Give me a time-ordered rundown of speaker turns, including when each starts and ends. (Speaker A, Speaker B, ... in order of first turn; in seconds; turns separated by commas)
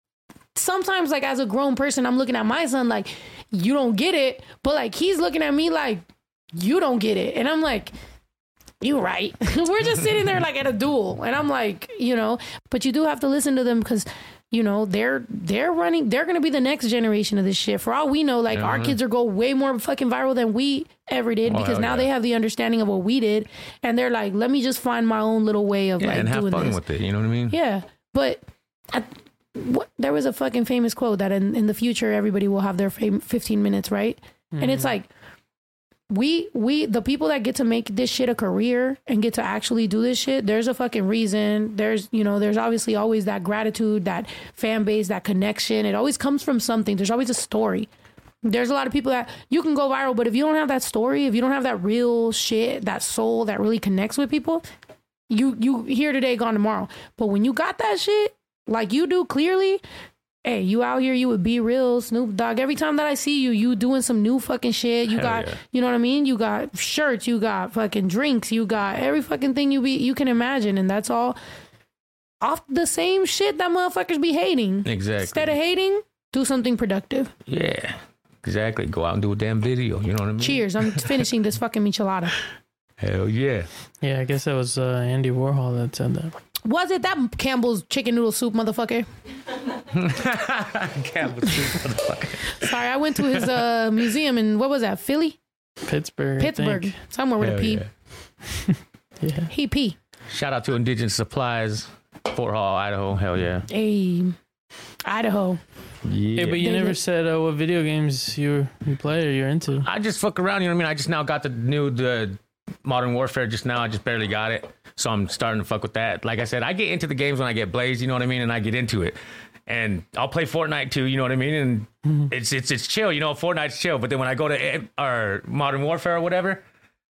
Speaker A: 0.5-7.9, Speaker A: 8.8-26.8, Speaker B: 18.5-19.0, Speaker B: 21.5-22.1, Speaker B: 26.0-27.6, Speaker A: 27.5-28.4, Speaker A: 28.9-35.1, Speaker C: 34.5-34.9, Speaker A: 36.1-47.9, Speaker A: 48.4-54.6, Speaker A: 55.3-59.8, Speaker A: 60.4-71.4, Speaker B: 65.1-65.6, Speaker A: 72.4-77.3, Speaker B: 74.8-75.5, Speaker B: 77.5-81.1, Speaker A: 80.4-82.3, Speaker B: 83.0-83.7, Speaker C: 84.0-86.3, Speaker A: 86.7-89.1, Speaker B: 89.9-92.7, Speaker A: 92.6-95.4, Speaker C: 95.8-97.0, Speaker A: 96.4-97.8, Speaker B: 97.4-97.9, Speaker C: 99.2-99.5, Speaker A: 99.5-99.9, Speaker B: 100.3-103.7, Speaker A: 103.7-104.3, Speaker A: 105.0-105.6, Speaker B: 106.0-106.6, Speaker C: 106.3-109.9, Speaker A: 106.6-107.0, Speaker B: 109.8-126.6